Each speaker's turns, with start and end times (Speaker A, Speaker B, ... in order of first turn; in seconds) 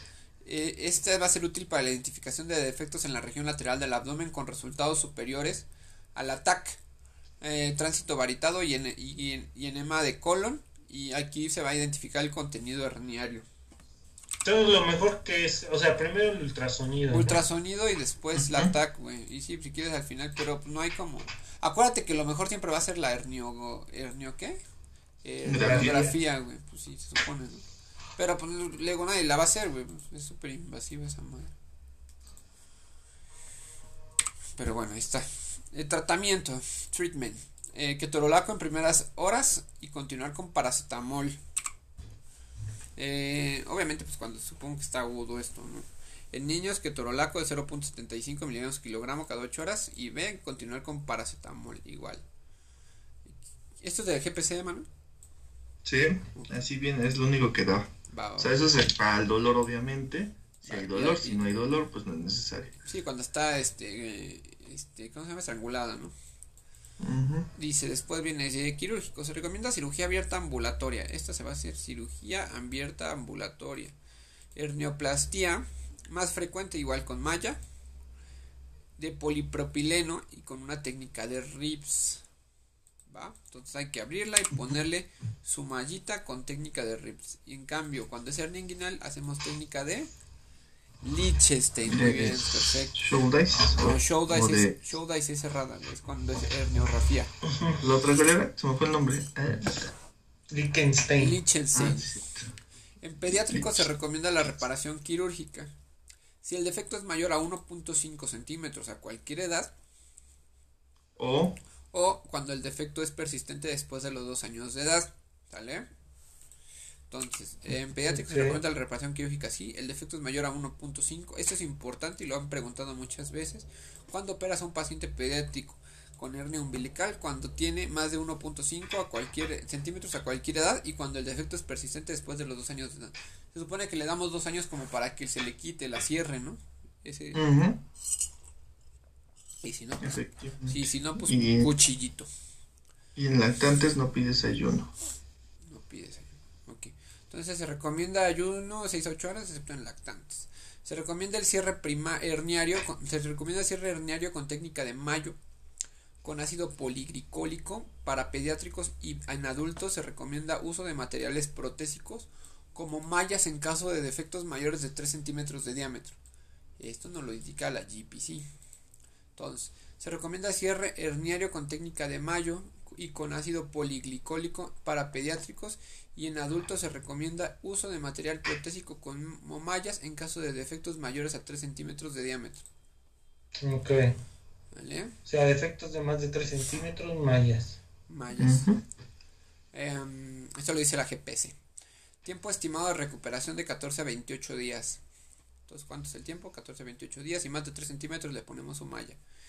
Speaker A: 0.4-6.8, 7.4-13.4, 17.1-24.6, 25.2-27.6, 28.1-31.5, 34.5-41.4, 43.0-52.2, 53.3-54.9, 58.1-58.5, 60.7-61.5, 62.8-66.1, 67.5-73.9, 74.5-77.6, 79.0-82.2, 83.1-90.1, 91.0-93.0, 93.8-97.3, 101.2-102.1, 103.0-105.7, 106.4-109.7, 111.9-115.9, 117.1-137.5, 139.6-142.3, 145.6-155.4, 156.2-166.2, 166.8-168.4, 169.3-182.6, 184.7-185.1, 188.1-188.7, 189.7-191.6, 192.2-195.0, 195.7-199.2
Speaker B: 14.4-17.4, 25.6-26.0, 97.5-97.8, 100.5-101.4, 118.1-118.6, 183.6-184.2, 185.2-187.8
Speaker C: 18.3-18.7, 25.4-26.1, 55.8-62.7, 67.0-67.5, 91.8-94.8, 97.8-99.9, 101.7-102.5, 103.4-103.9, 111.2-111.6, 137.3-137.8, 140.0-141.7, 143.1-144.9, 188.4-188.8